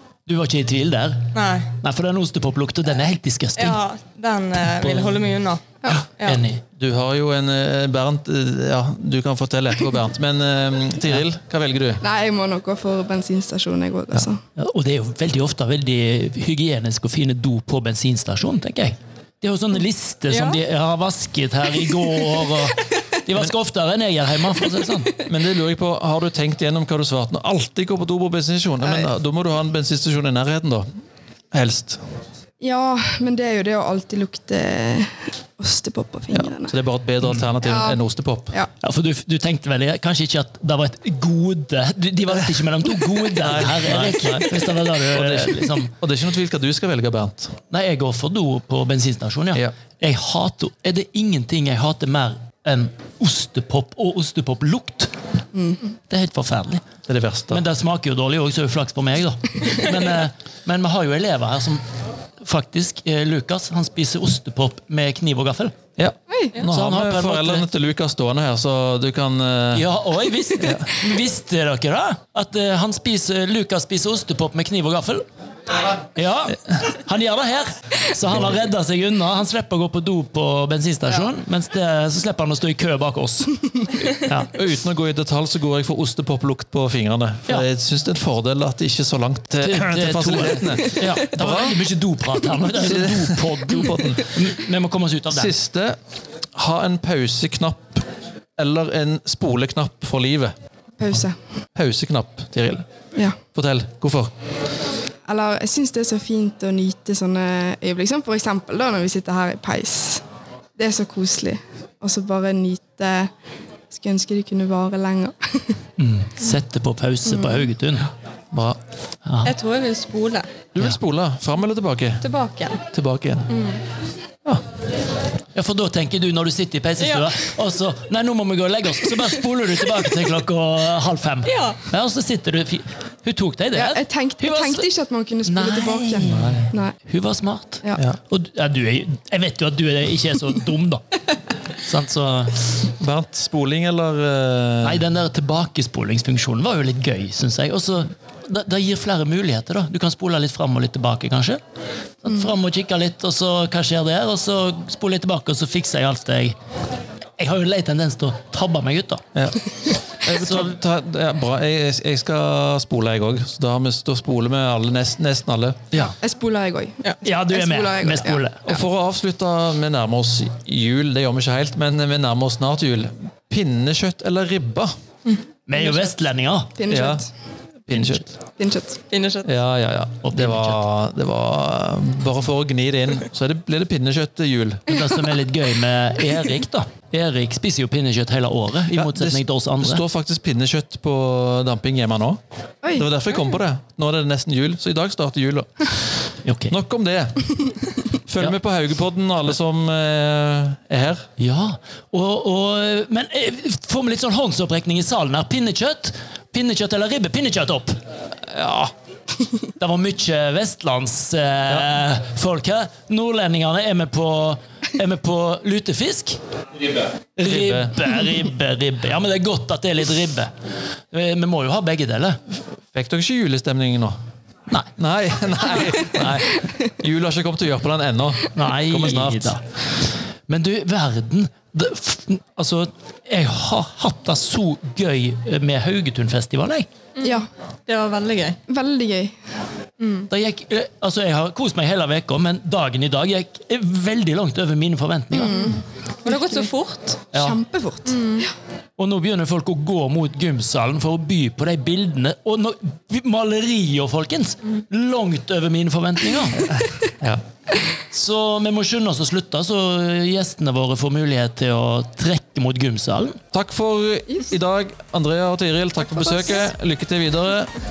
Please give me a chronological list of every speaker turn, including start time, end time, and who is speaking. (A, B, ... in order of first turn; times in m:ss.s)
0:00.3-0:03.8 A
0:01.3-0:01.8 B
0:03.6-0:05.6 B
0:04.6-0:05.3 A
0:05.9-0:06.6 A
0:06.8-0:12.0 C
0:12.0-0:14.4 D
0:14.6-0:25.2 A
0:20.3-0:20.6 B
0:25.3-0:30.9 C
0:28.8-0:29.1 D
0:31.5-0:32.0 C
0:32.6-0:36.8 D
0:36.3-0:38.6 C
0:37.6-0:38.7 D
0:38.8-0:45.9 A
0:43.4-0:47.6 C
0:47.7-0:55.1 A
0:55.6-0:55.8 D
0:56.1-0:56.9 A
0:57.1-0:57.6 C
0:57.5-1:01.8 A
1:02.4-1:05.7 A
1:06.0-1:09.9 C
1:06.3-1:06.6 D
1:06.7-1:07.7 A
1:09.7-1:15.2 A
1:15.8-1:24.5 A
1:24.5-1:31.8 C
1:29.6-1:35.5 A
1:32.8-1:34.3 C
1:35.3-1:36.0 C
1:36.6-1:38.0 C
1:38.6-1:40.5 C
1:41.0-1:41.4 D
1:41.8-1:42.8 C
1:43.5-1:44.3 C
1:45.2-1:50.2 D
1:50.8-1:53.3 D
1:53.9-1:55.8 D
1:56.0-1:58.1 A
1:57.3-1:57.7 D
1:58.5-1:58.8 C
1:59.2-1:59.5 A
1:59.4-2:00.5 B
2:00.8-2:02.2 C
2:02.2-2:02.8 B
2:02.9-2:03.5 C
2:03.5-2:03.8 B
2:05.5-2:14.9 A
2:07.0-2:07.5 B
2:11.5-2:11.8 B
2:13.7-2:17.0 D
2:15.5-2:21.0 A
2:16.3-2:16.7 C
2:21.8-2:22.6 A
2:23.0-2:25.0 C
2:24.8-2:31.6 A
2:32.2-2:36.6 A
2:37.4-2:39.2 A
2:39.4-2:39.6 C
2:40.2-2:46.1 C
2:40.4-2:40.7 A
2:46.0-2:48.4 D
2:47.2-2:48.8 A
2:48.6-2:54.9 C
2:55.7-2:56.8 A
2:55.8-2:56.1 D
2:56.8-2:57.3 D
2:56.9-2:57.3 C
2:57.9-2:58.3 C
2:57.9-2:58.2 A
2:58.6-2:59.0 D
2:59.1-2:59.5 B
2:59.4-3:04.8 C
3:00.2-3:00.8 A
3:04.9-3:10.0 A
3:08.9-3:12.4 C
3:12.9-3:16.0 C
3:16.4-3:16.8 A
3:16.7-3:21.2 C
3:21.4-3:28.0 A
3:28.5-3:28.9 C
3:29.8-3:36.4 A
3:37.4-3:40.5 A
3:37.5-3:37.9 C
3:41.1-3:42.4 A
3:42.9-3:44.2 C
3:45.0-3:49.6 C
3:48.5-3:56.9 A
3:57.2-3:58.6 B
3:58.7-3:59.4 D
4:00.0-4:00.3 B
4:00.3-4:05.6 A
4:05.3-4:06.7 D
4:05.5-4:07.3 B
4:07.3-4:07.6 A
4:07.3-4:08.4 D
4:08.1-4:08.5 B
4:09.0-4:16.7 A
4:18.1-4:23.4 A
4:23.5-4:27.7 C
4:26.1-4:26.6 D